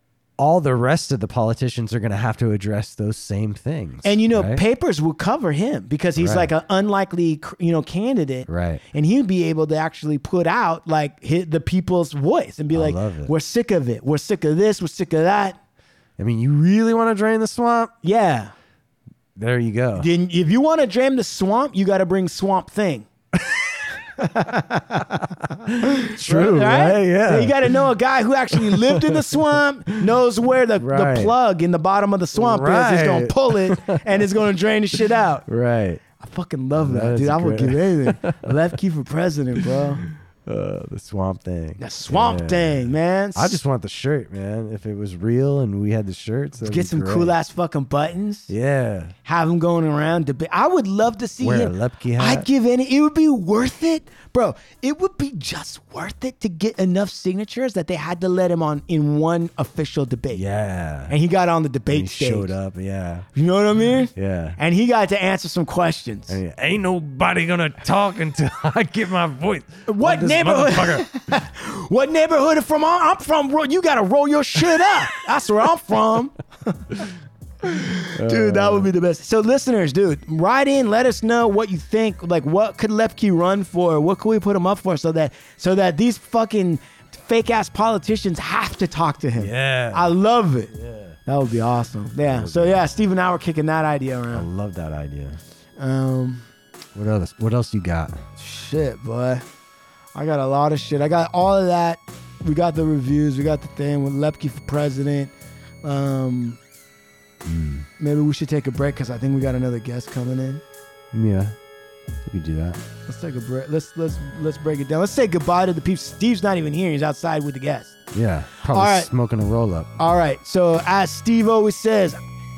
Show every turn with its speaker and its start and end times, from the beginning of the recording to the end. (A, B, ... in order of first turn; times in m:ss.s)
0:00.4-0:04.6 A
0:04.0-0:15.6 B
0:06.2-0:06.5 A
0:08.5-0:08.8 A
0:12.7-0:13.3 A
0:16.2-0:17.9 A
0:18.0-0:18.5 B
0:19.4-0:20.1 A
0:20.0-0:23.0 B
0:24.2-0:35.4 B
0:25.1-0:27.8 A
0:28.6-0:29.0 A
0:30.8-0:31.3 A
0:32.3-0:34.2 A
0:35.4-0:36.0 A
0:36.2-0:40.0 B
0:36.8-0:38.6 A
0:40.4-0:47.3 A
0:41.8-0:43.6 B
0:46.6-0:48.5 B
0:48.5-0:49.1 A
0:49.2-1:00.4 B
0:51.4-0:52.5 A
1:00.3-1:01.1 A
1:01.1-1:02.5 B
1:01.9-1:03.3 A
1:03.3-1:06.4 B
1:04.1-1:04.6 A
1:06.3-1:11.1 A
1:09.9-1:17.0 B
1:17.6-1:30.7 B
1:18.2-1:18.9 A
1:29.3-1:30.1 A
1:30.7-1:31.2 A
1:31.2-1:34.4 B
1:32.2-1:32.8 A
1:34.3-1:35.4 A
1:35.8-1:36.4 B
1:36.9-1:38.2 A
1:38.4-1:39.4 B
1:40.1-1:46.6 B
1:47.4-1:47.9 A
1:48.0-1:50.6 B
1:51.1-1:51.6 A
1:52.2-1:52.8 A
1:53.1-1:58.0 B
1:58.1-1:59.9 A
1:58.7-1:59.1 B
2:00.0-2:02.2 B